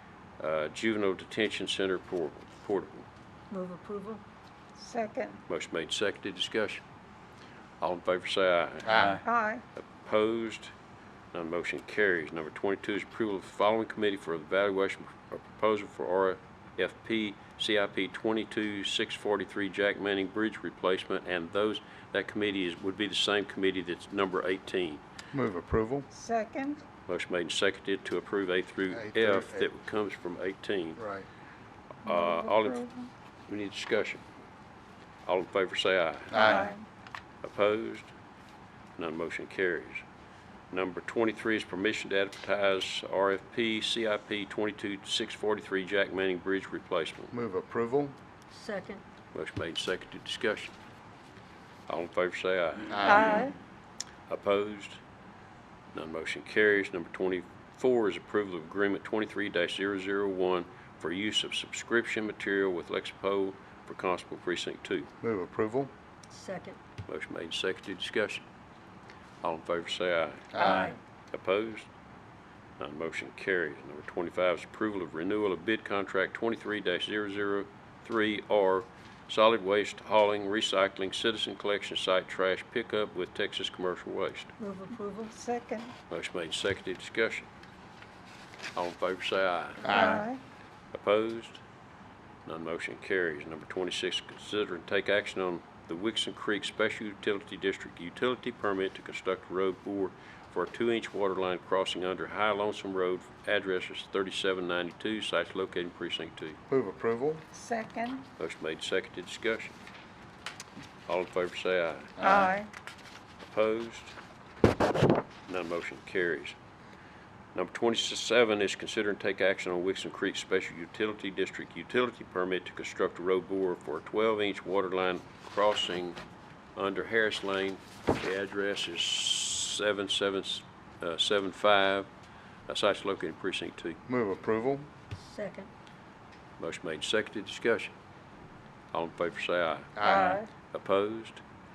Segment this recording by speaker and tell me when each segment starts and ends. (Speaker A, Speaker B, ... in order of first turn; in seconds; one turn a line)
Speaker A: 0.4-3.1
Speaker B: 3.5-4.2
Speaker C: 4.8-5.4
Speaker A: 5.5-6.8
Speaker A: 7.8-9.2
Speaker D: 8.9-9.2
Speaker C: 9.2-9.6
Speaker A: 9.8-10.7
Speaker A: 11.3-25.0
Speaker D: 25.3-26.1
Speaker C: 26.1-26.8
Speaker A: 27.1-31.0
Speaker D: 28.9-29.7
Speaker D: 31.0-31.3
Speaker A: 32.0-32.9
Speaker C: 32.1-33.1
Speaker A: 33.5-34.2
Speaker A: 35.2-36.7
Speaker D: 36.3-36.6
Speaker C: 36.3-36.8
Speaker A: 37.4-38.1
Speaker A: 39.0-40.0
Speaker A: 40.7-47.3
Speaker D: 47.3-48.2
Speaker B: 48.5-49.0
Speaker A: 49.3-50.7
Speaker A: 51.9-53.5
Speaker D: 52.9-53.4
Speaker C: 53.1-53.5
Speaker A: 54.3-55.0
Speaker A: 55.9-65.1
Speaker D: 65.2-65.9
Speaker B: 66.3-66.8
Speaker A: 67.1-68.5
Speaker A: 69.4-71.9
Speaker D: 70.5-70.9
Speaker B: 70.6-71.0
Speaker A: 72.8-84.5
Speaker B: 84.6-85.3
Speaker C: 85.3-85.9
Speaker A: 86.1-87.5
Speaker A: 88.8-90.3
Speaker C: 89.8-90.4
Speaker D: 89.9-90.2
Speaker A: 90.9-91.6
Speaker A: 92.5-106.6
Speaker D: 106.7-107.5
Speaker C: 107.5-108.3
Speaker A: 108.4-109.8
Speaker A: 111.1-112.2
Speaker D: 112.2-112.6
Speaker C: 112.2-112.7
Speaker A: 113.4-114.2
Speaker A: 115.5-116.6
Speaker A: 117.5-126.2
Speaker A: 126.8-132.1
Speaker A: 132.7-134.0
Speaker D: 134.1-134.9
Speaker B: 135.2-135.7
Speaker A: 136.6-137.9
Speaker A: 138.9-141.4
Speaker D: 140.0-140.4
Speaker C: 140.0-140.5